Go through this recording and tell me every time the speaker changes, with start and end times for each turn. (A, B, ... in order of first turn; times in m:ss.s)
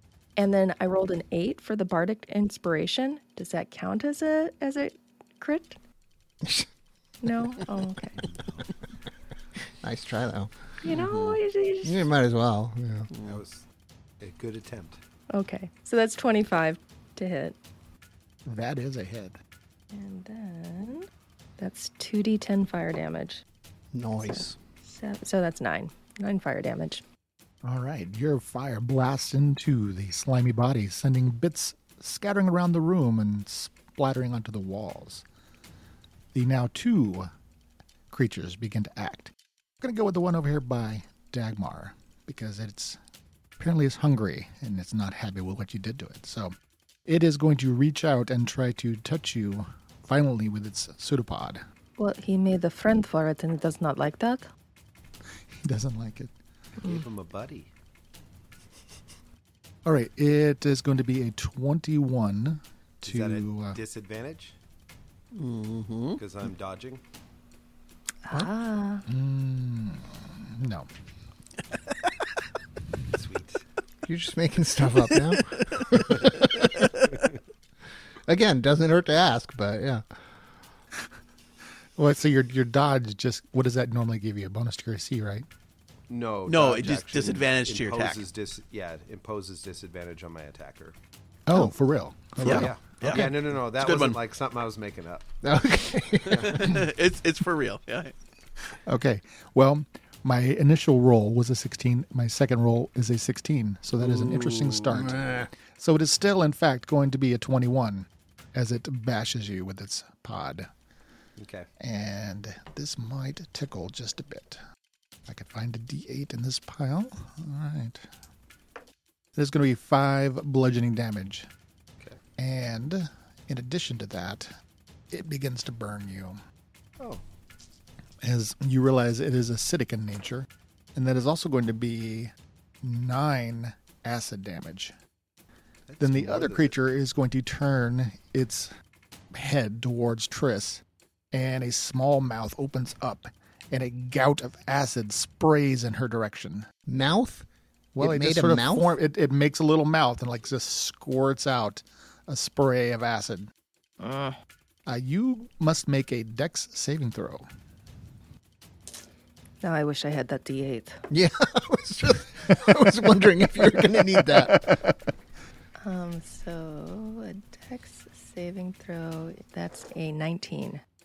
0:00.4-0:05.8 A
0:06.4-0:06.7 B
0:07.2-0:08.2 A
0:08.2-0:08.6 C
0:09.8-0:10.8 B
0:10.8-0:12.0 A
0:11.8-0:13.1 B
0:13.1-0:13.4 D
0:13.2-0:13.6 C
0:14.2-0:15.0 C
0:15.3-0:17.6 A
0:18.4-0:19.4 E
0:19.9-0:21.1 A
0:21.6-0:23.4 A
0:23.9-0:24.6 B
0:24.2-0:27.0 A
0:27.6-0:35.2 E
0:36.3-0:37.3 E
0:38.1-0:43.0 E
0:43.6-0:46.5 E
0:47.0-0:51.6 E
0:52.0-0:54.5 A
0:55.5-0:56.3 E
0:56.8-0:57.7 C
0:59.8-1:03.8 E
1:03.0-1:04.5 C
1:05.3-1:06.2 D
1:06.2-1:07.0 C
1:08.2-1:09.0 A
1:09.1-1:10.9 E
1:13.1-1:13.6 C
1:14.0-1:16.9 B
1:15.1-1:17.1 D
1:18.3-1:20.0 B
1:22.0-1:25.4 E
1:26.1-1:31.0 C
1:26.4-1:28.2 D
1:31.5-1:33.3 E
1:32.4-1:34.2 D
1:32.4-1:35.3 C
1:35.4-1:36.8 B
1:36.3-1:36.7 C
1:36.4-1:38.1 D
1:38.8-1:50.7 E
1:44.9-1:45.5 B
1:51.4-1:51.7 C
1:51.8-1:54.6 E
1:55.2-1:58.0 E
1:59.3-2:01.5 E
2:02.4-2:04.5 E
2:05.1-2:06.4 E
2:08.2-2:14.9 E
2:15.9-2:16.7 C
2:16.0-2:18.7 E
2:19.3-2:26.7 E
2:26.9-2:27.4 B
2:27.9-2:33.5 E
2:28.0-2:28.9 B
2:34.9-2:37.4 E
2:39.6-2:41.0 A
2:41.1-2:44.8 B
2:44.0-2:44.9 E
2:45.8-2:50.8 A